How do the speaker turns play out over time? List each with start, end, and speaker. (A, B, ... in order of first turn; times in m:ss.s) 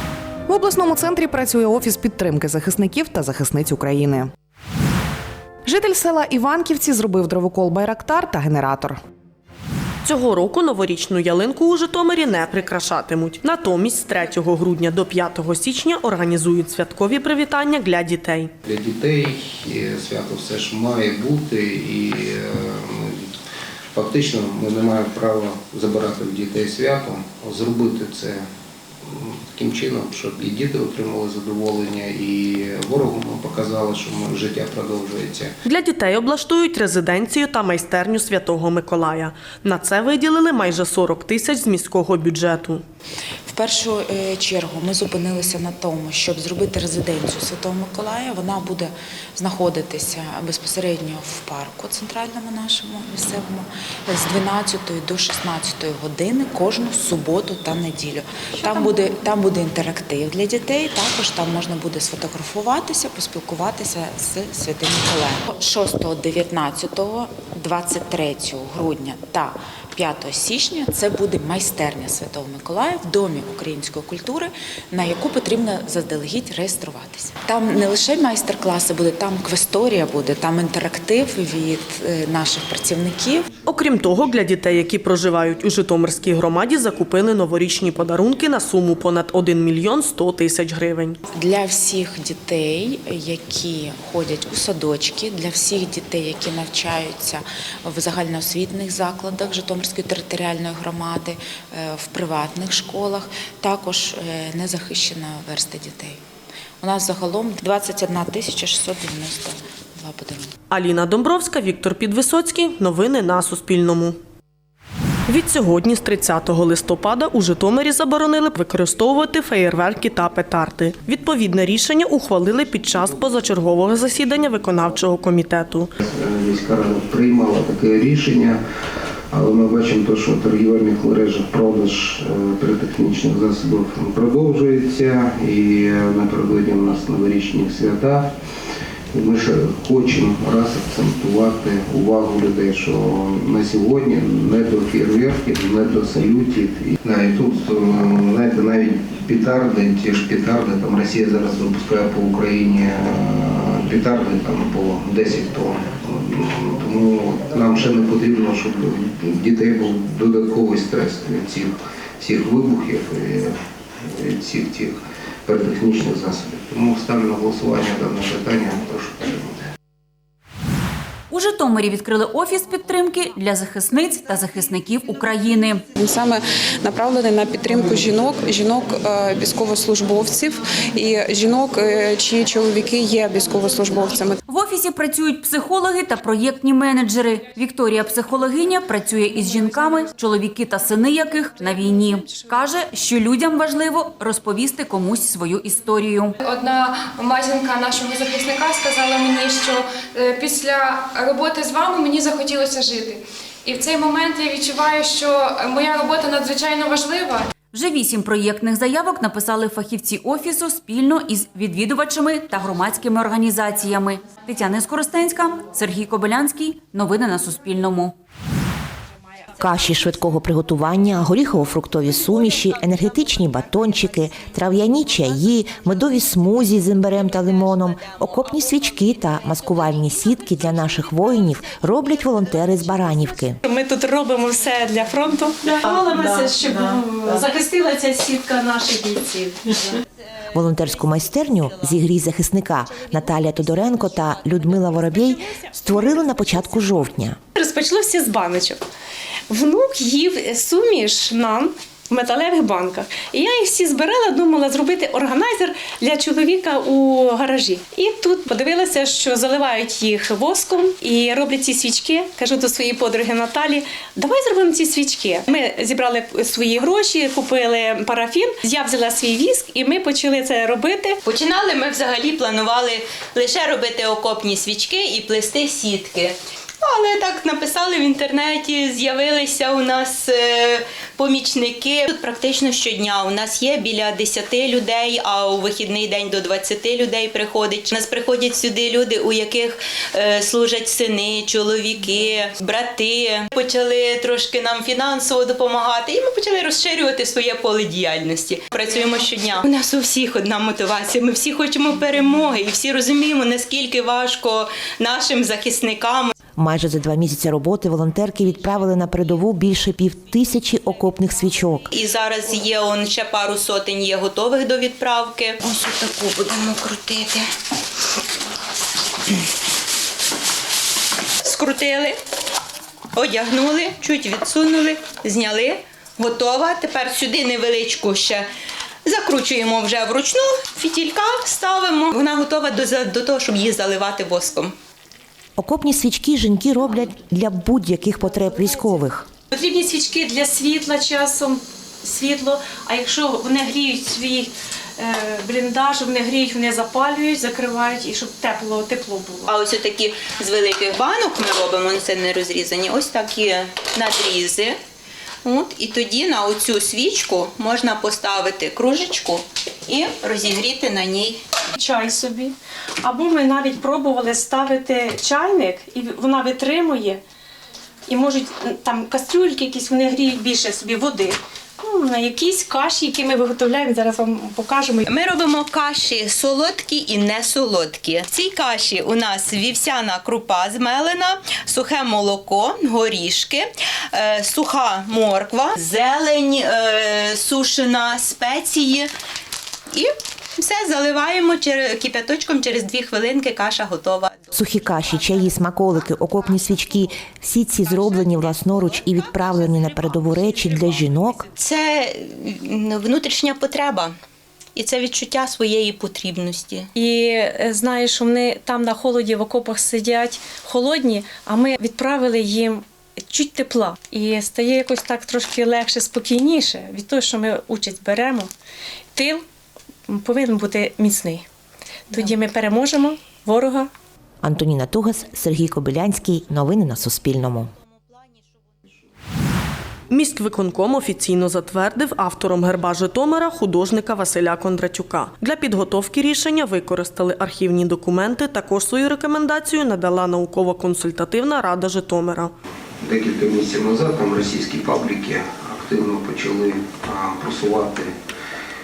0:00.5-0:04.3 A
0:05.7-0:09.0 A
0:10.0-0:18.5 B
0:18.7-0:23.3 C
0:23.9-0:28.5 C
0:29.0-0:35.6 C
0:35.6-0:42.8 B
0:43.5-1:23.5 D
1:23.7-1:31.2 B
1:31.3-1:46.2 D
1:46.8-1:50.5 D
1:50.7-1:54.2 B
1:55.3-2:05.9 B
2:06.0-2:08.6 C
2:09.3-2:18.3 C
2:19.1-2:45.0 C
2:45.5-2:49.6 C
2:51.3-2:55.9 E
2:57.5-2:58.8 F
2:59.8-3:00.4 F
3:02.4-3:02.8 F
3:03.6-3:04.4 F
3:04.5-3:16.4 E
3:16.4-3:27.5 G
3:27.7-3:38.1 E
3:39.6-3:53.6 H
3:53.6-3:59.9 I
4:00.5-4:07.4 H
4:07.6-4:08.8 I
4:09.5-4:31.2 I
4:31.2-5:06.3 J
5:06.6-5:11.8 H
5:11.9-5:17.4 J
5:21.4-5:22.2 J
5:23.2-5:28.5 J
5:29.0-5:34.7 J
5:35.6-5:39.3 H
5:39.5-5:49.5 I
5:49.5-5:54.8 J
5:55.4-6:01.4 J
6:01.8-6:07.2 I
6:08.1-6:15.1 I
6:15.1-6:29.1 J
6:29.9-6:34.4 J
6:34.5-6:41.5 H
6:38.0-6:38.6 J
6:41.6-6:44.1 J
6:44.8-6:46.9 J
6:47.0-6:58.5 I
6:59.2-6:59.4 I
7:00.1-7:01.5 I
7:02.1-7:03.9 I
7:04.4-7:07.7 H
7:10.1-7:22.5 B
7:23.0-7:28.1 C